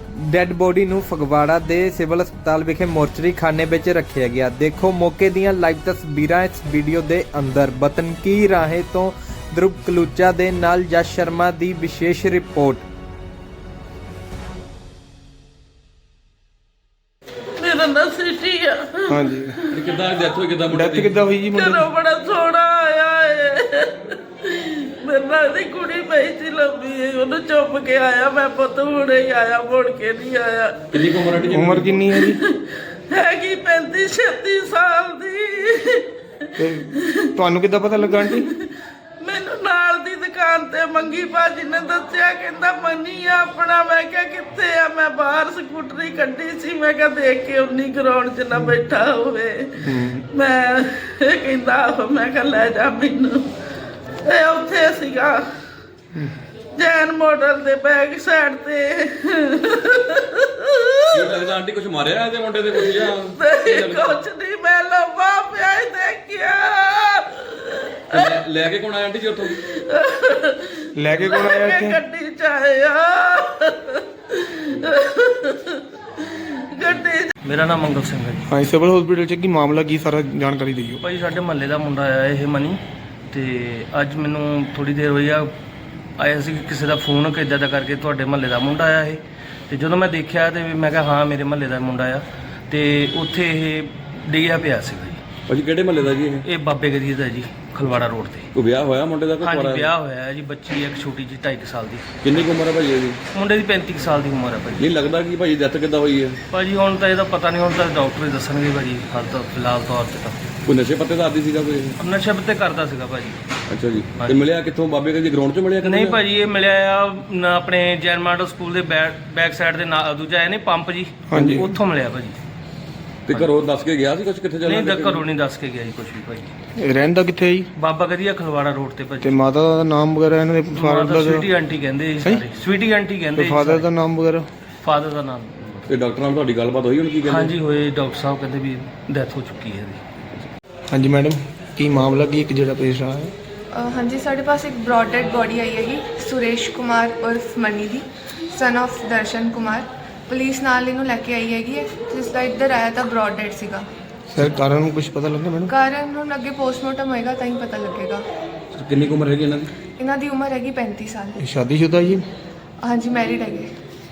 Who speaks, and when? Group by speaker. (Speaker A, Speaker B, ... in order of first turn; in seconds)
Speaker A: 0.1-12.8
Speaker B: 17.6-19.9, 21.5-31.2, 32.1-32.6, 33.1-36.1, 36.6-37.4, 38.0-38.6, 39.2-53.5, 54.2-55.4, 56.8-61.5, 62.7-68.4, 69.5-77.3
Speaker C: 19.1-19.6, 20.7-21.9, 31.5-32.4, 36.6-38.5, 49.9-50.2, 71.0-72.0, 78.5-81.0, 121.3-121.7, 126.8-127.7, 129.2-131.5, 133.4-134.5, 140.9-143.3, 154.3-155.7, 161.4-162.2
Speaker D: 19.7-21.1, 30.9-32.0, 61.1-64.2, 68.1-69.6, 95.5-96.5, 98.5-99.9, 102.2-103.2, 104.8-106.4, 110.7-112.0, 113.7-116.2, 121.3-121.6, 123.3-125.2, 135.9-137.5, 158.7-159.7
Speaker E: 77.4-78.5, 81.0-82.8, 83.3-85.5, 86.2-95.2, 96.4-98.5, 99.4-102.1, 103.3-104.9, 106.5-110.4, 112.0-113.4, 115.8-122.4, 124.7-126.5, 127.8-129.4, 130.7-133.9, 134.8-135.9, 137.3-140.0
Speaker F: 143.7-153.9, 155.7-158.2, 160.0-161.4, 162.8-163.7